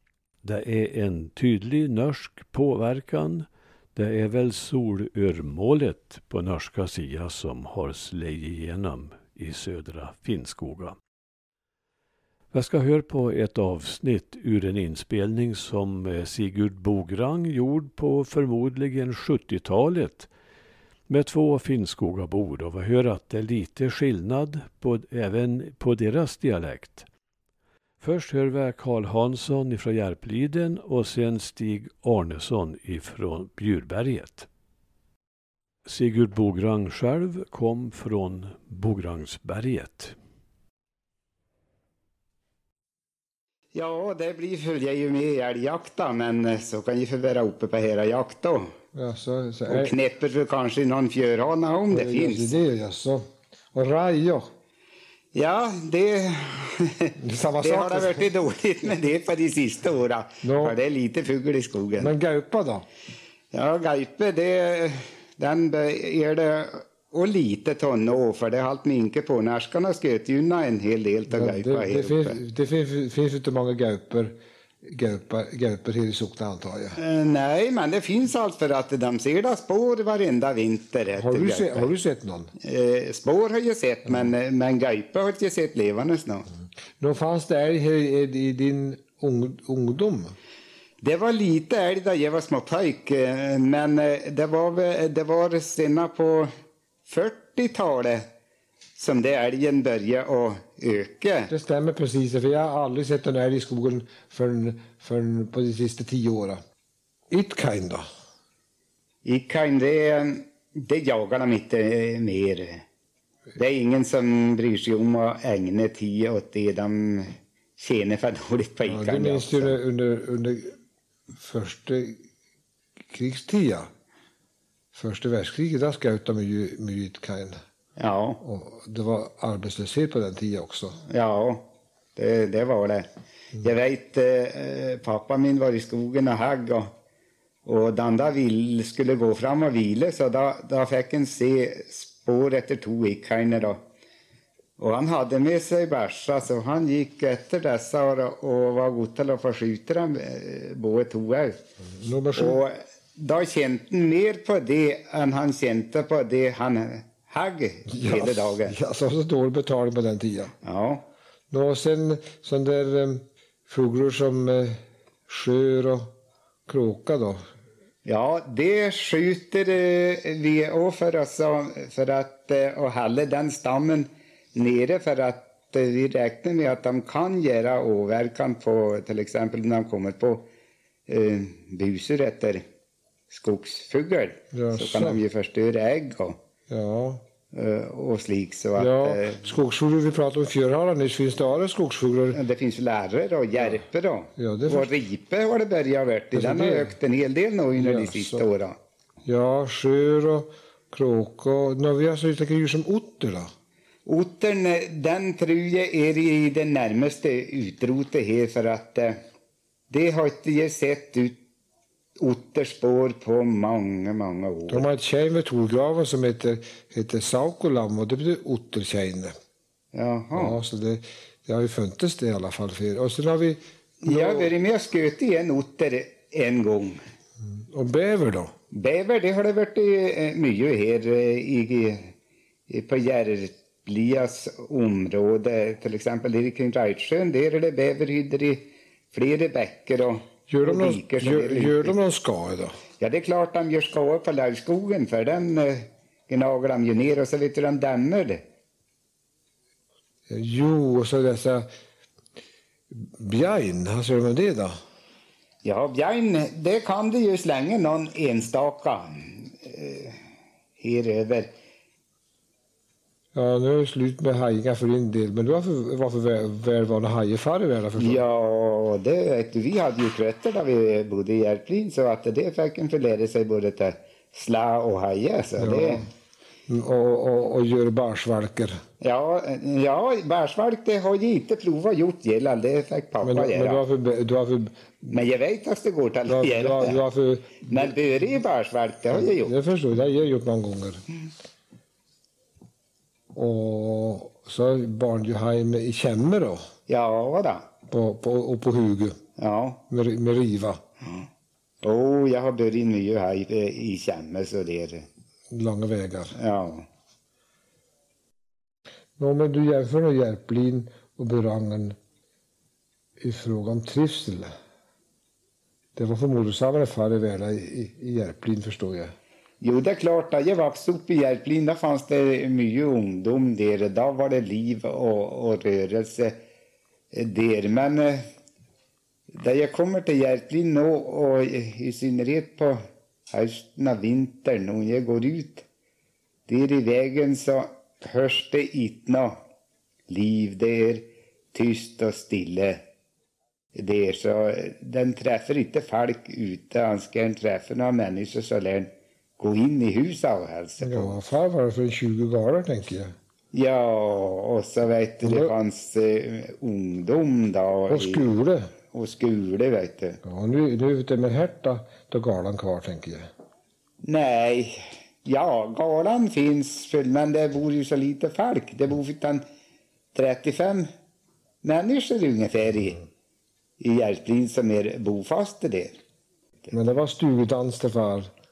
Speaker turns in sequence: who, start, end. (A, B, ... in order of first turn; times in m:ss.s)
0:00.4-0:11.0 A
0:12.5-0:20.3 A
0:21.1-0:27.0 A
0:28.0-0:34.5 A
0:35.8-0:40.1 A
0:43.7-0:48.7 B
0:48.9-0:49.9 C
0:49.7-0:52.5 B
0:51.9-0:54.5 C
0:55.3-1:02.1 B
0:57.2-0:58.2 C
1:00.4-1:00.7 C
1:02.0-1:02.8 C
1:03.5-1:12.4 B
1:11.3-1:17.0 C
1:17.0-1:21.9 B
1:21.2-1:22.5 C
1:22.6-1:26.4 B
1:27.0-1:30.3 C
1:31.0-1:36.5 B
1:37.1-1:38.2 B
1:39.0-1:41.5 B
1:41.5-1:46.6 C
1:47.3-1:48.0 C
1:49.2-1:52.8 B
1:53.6-1:59.8 B
1:58.8-2:00.7 C
2:01.4-2:02.2 C
2:03.1-2:03.9 C
2:04.9-2:07.6 C
2:08.0-2:08.4 B
2:08.4-2:11.0 C
2:11.1-2:13.0 B
2:13.6-2:16.9 B
2:17.6-2:23.8 B
2:24.8-2:31.6 B
2:32.0-2:32.6 C
2:32.4-2:38.7 B
2:37.9-2:40.5 C
2:40.6-2:41.0 B
2:41.5-2:44.8 C
2:45.3-2:46.1 C
2:46.7-2:47.4 C
2:48.0-3:00.4 B
3:01.1-3:02.6 B
3:03.3-3:06.4 B
3:04.5-3:05.2 C
3:06.7-3:07.2 C
3:07.5-3:09.4 B
3:08.8-3:12.4 C
3:12.3-3:18.7 B
3:14.4-3:14.9 C
3:16.3-3:16.9 C
3:17.7-3:18.5 C
3:19.2-3:23.5 C
3:24.0-3:29.1 B
3:29.9-3:31.4 B
3:32.2-3:34.8 B
3:34.7-3:39.3 C
3:39.9-3:40.6 B
3:40.3-3:44.5 C
3:44.0-3:47.0 B
3:47.7-3:48.5 C
3:48.7-3:52.1 B
3:52.7-4:02.0 B
4:00.5-4:02.7 C
4:03.0-4:08.4 B
4:10.3-4:11.6 C
4:12.9-4:14.7 C
4:15.6-4:20.2 B
4:20.8-4:21.5 B
4:23.3-4:28.2 C
4:28.0-4:36.0 B
4:35.6-4:36.0 C
4:36.7-4:38.8 C
4:39.0-4:43.8 B
4:43.2-4:44.8 C
4:45.1-4:47.0 B
4:46.2-4:47.7 C
4:47.6-4:49.5 B
4:49.1-4:51.0 C
4:53.3-4:56.6 C
4:56.9-4:57.7 B
4:57.9-4:59.2 C
4:59.4-4:59.8 B
4:59.9-5:00.8 C
5:01.8-5:05.0 B
5:05.5-5:06.3 C
5:06.3-5:06.8 B
5:09.2-5:12.0 C
5:13.2-5:14.5 C
5:15.9-5:19.1 C
5:19.6-5:26.4 B
5:27.1-5:28.2 B
5:29.3-5:32.8 B
5:33.3-5:35.6 B
5:36.5-5:39.3 B
5:40.1-5:42.8 B
5:43.7-5:51.2 B
5:50.8-5:53.1 C
5:53.5-5:58.3 B
5:55.2-5:55.5 C
5:57.9-5:58.7 C
5:58.9-6:00.2 B
6:00.2-6:03.3 C
6:04.0-6:09.4 B
6:10.1-6:10.9 B
6:11.6-6:13.0 B
6:13.8-6:15.9 B
6:16.7-6:18.3 C